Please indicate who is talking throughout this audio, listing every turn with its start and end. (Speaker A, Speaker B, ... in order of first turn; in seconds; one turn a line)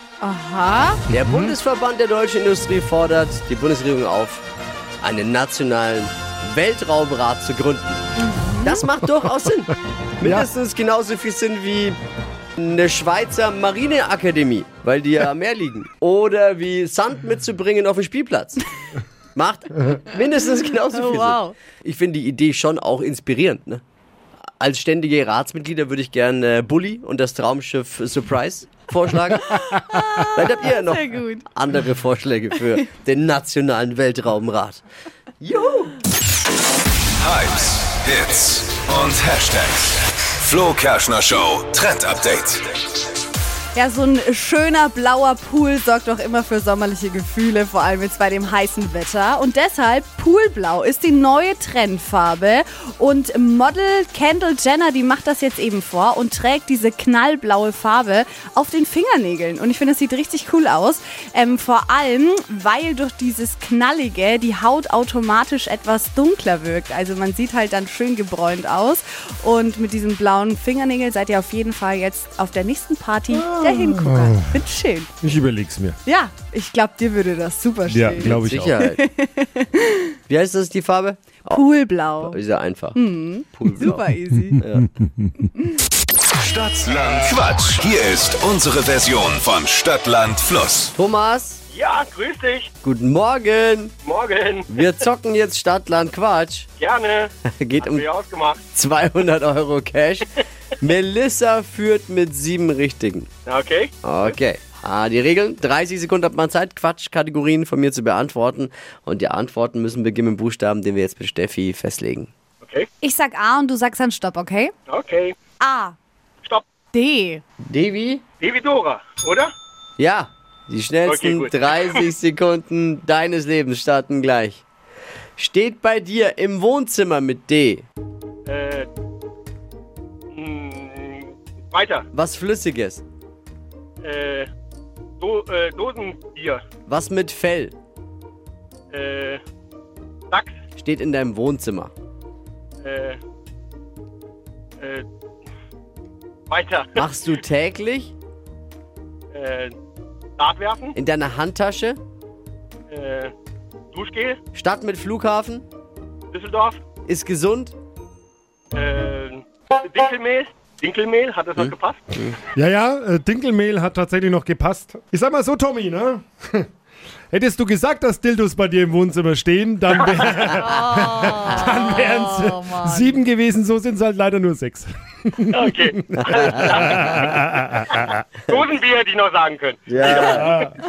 Speaker A: 0.2-1.0
Speaker B: 1.1-4.5
Speaker C: 1.1-1.6
Speaker B: 5.0-8.0
Speaker A: 8.2-8.8
Speaker B: 8.6-12.0
Speaker B: 12.6-18.6
Speaker B: 19.4-23.8
Speaker A: 20.9-21.5
Speaker B: 24.6-29.6
Speaker A: 29.4-31.5
Speaker B: 30.4-34.8
Speaker B: 35.4-36.0
Speaker D: 37.2-42.7
Speaker A: 43.8-75.1
Speaker C: 73.3-74.6
Speaker C: 75.2-76.0
Speaker A: 76.0-80.1
Speaker C: 77.9-78.8
Speaker B: 78.2-79.0
Speaker B: 80.3-81.7
Speaker A: 81.5-82.4
Speaker B: 82.2-84.0
Speaker A: 82.9-84.6
Speaker C: 84.4-85.5
Speaker B: 84.6-84.8
Speaker D: 86.4-90.9
Speaker B: 91.0-91.6
Speaker E: 91.7-92.7
Speaker B: 92.8-93.9
Speaker E: 94.0-94.9
Speaker B: 94.7-96.7
Speaker E: 96.8-98.6
Speaker B: 97.5-98.0
Speaker B: 98.7-100.3
Speaker B: 100.8-103.3
Speaker E: 103.5-104.3
Speaker B: 104.0-112.3
Speaker E: 112.6-112.9
Speaker A: 113.0-114.7
Speaker E: 114.9-115.4
Speaker A: 115.6-116.0
Speaker A: 116.9-117.4
Speaker B: 117.6-118.2
Speaker E: 118.4-119.5
Speaker B: 120.0-124.6
Speaker E: 121.0-122.0
Speaker B: 125.4-127.8
Speaker E: 128.5-128.9
Speaker E: 130.3-132.1
Speaker B: 132.1-133.0
Speaker E: 134.0-134.5
Speaker E: 135.2-136.6
Speaker B: 136.9-137.7
Speaker E: 138.9-139.4
Speaker E: 140.3-140.6
Speaker B: 140.8-141.9
Speaker E: 142.8-143.2
Speaker E: 144.8-145.1
Speaker E: 146.5-147.1
Speaker B: 147.0-148.1
Speaker E: 149.3-149.7
Speaker E: 150.4-150.9
Speaker B: 151.0-152.0
Speaker E: 152.9-153.3
Speaker E: 153.9-154.4
Speaker B: 154.6-155.7
Speaker E: 156.3-156.8
Speaker B: 157.1-157.8
Speaker E: 158.7-162.0
Speaker C: 162.6-166.7
Speaker C: 167.3-178.2
Speaker E: 169.9-170.6
Speaker A: 170.6-173.2
Speaker E: 175.5-177.3
Speaker B: 176.1-176.5
Speaker E: 177.9-180.7
Speaker B: 179.9-180.7
Speaker C: 180.3-180.7